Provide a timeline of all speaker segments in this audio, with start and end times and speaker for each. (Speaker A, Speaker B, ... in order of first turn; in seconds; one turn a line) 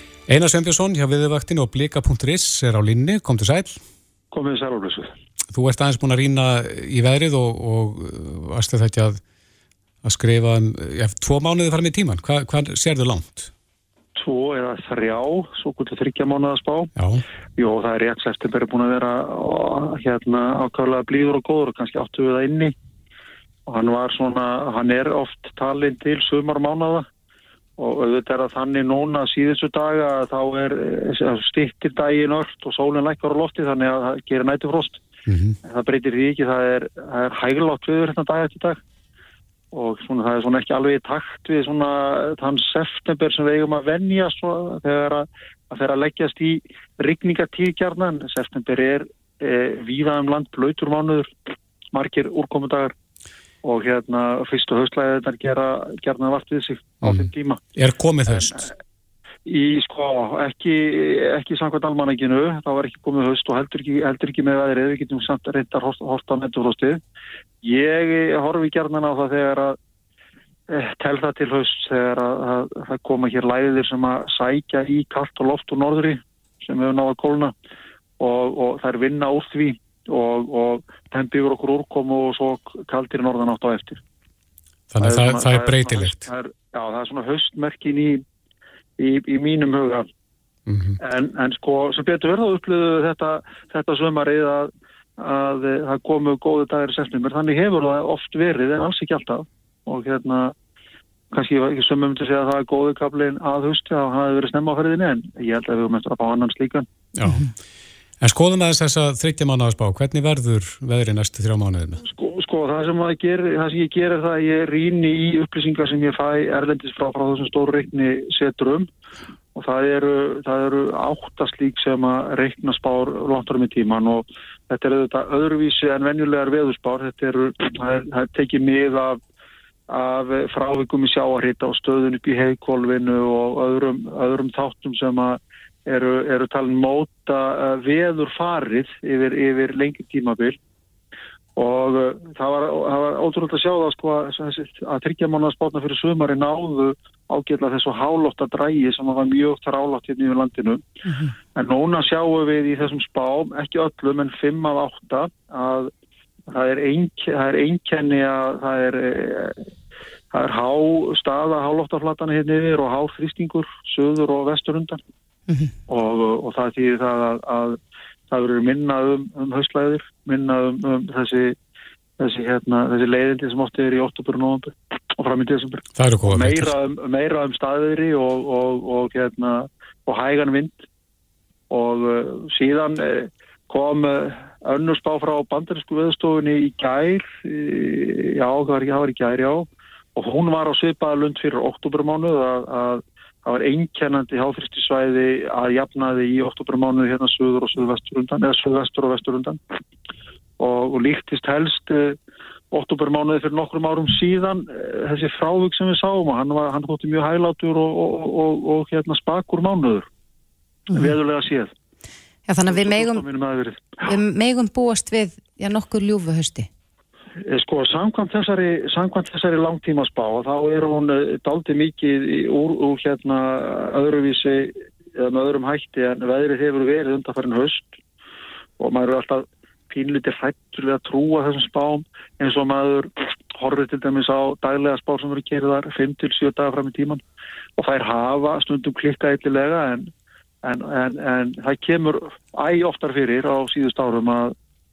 Speaker A: 0.3-3.8
Speaker B: 4.3-5.1
Speaker A: 5.5-9.2
Speaker A: 10.0-13.5
Speaker B: 14.2-16.9
Speaker A: 16.9-17.2
Speaker B: 17.6-22.7
Speaker B: 23.6-27.1
Speaker B: 27.8-35.0
Speaker A: 35.3-35.6
Speaker B: 35.6-38.8
Speaker B: 39.7-51.3
Speaker B: 51.9-52.9
Speaker B: 53.6-57.6
Speaker A: 57.0-58.6
Speaker B: 58.3-58.7
Speaker B: 59.5-67.0
Speaker B: 67.6-69.8
Speaker B: 70.7-77.5
Speaker B: 78.2-84.0
Speaker A: 84.9-86.2
Speaker B: 85.0-88.2
Speaker B: 89.0-90.1
Speaker A: 90.7-91.0
Speaker B: 91.0-100.5
Speaker B: 101.3-106.8
Speaker A: 107.1-107.5
Speaker A: 108.2-112.0
Speaker B: 112.0-118.9
Speaker B: 119.5-129.2
Speaker B: 129.9-140.6
Speaker B: 141.6-150.8
Speaker B: 151.5-155.9
Speaker B: 156.5-159.6
Speaker B: 160.3-165.0
Speaker B: 165.9-167.8
Speaker B: 168.3-171.6
Speaker B: 172.2-180.8
Speaker A: 175.9-176.7
Speaker B: 181.7-199.6
Speaker B: 200.6-202.2
Speaker B: 202.7-210.1
Speaker B: 210.9-211.7
Speaker C: 212.5-213.2
Speaker B: 212.7-213.9
Speaker C: 214.0-216.7
Speaker B: 217.4-227.9
Speaker B: 228.8-237.2
Speaker B: 237.8-240.1
Speaker B: 240.6-244.5